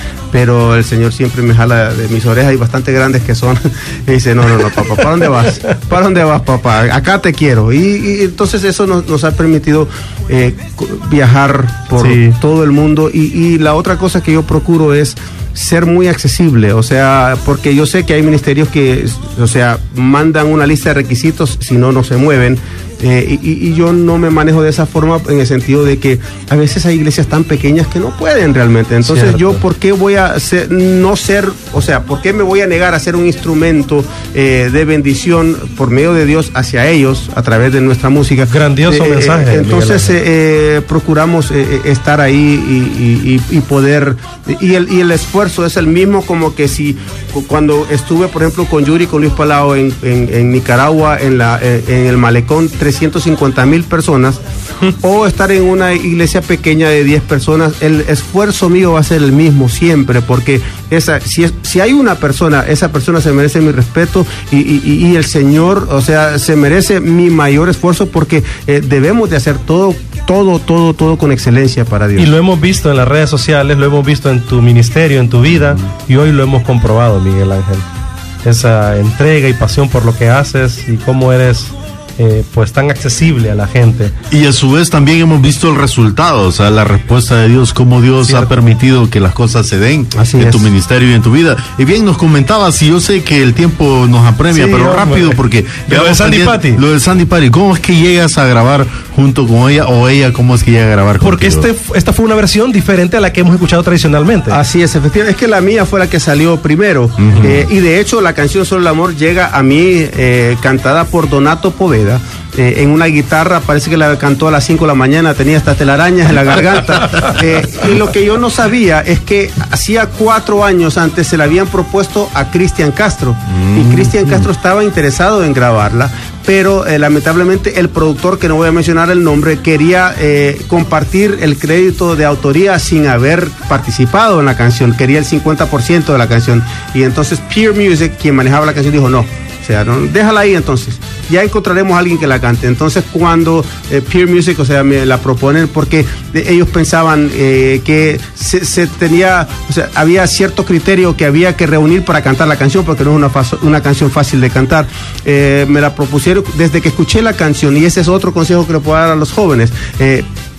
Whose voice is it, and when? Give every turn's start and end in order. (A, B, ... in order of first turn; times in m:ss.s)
0:00.3-1:12.3 A
0:12.0-0:12.4 B
0:29.1-0:29.5 B
0:38.5-0:40.1 B
1:12.2-1:17.9 B
1:18.4-1:24.1 B
1:24.3-1:41.7 C
1:28.2-1:28.7 B
1:30.2-1:30.7 A
1:34.5-1:36.8 B
1:41.2-1:44.6 B
1:44.5-2:40.3 A
1:47.2-1:47.6 C
2:03.6-2:04.4 C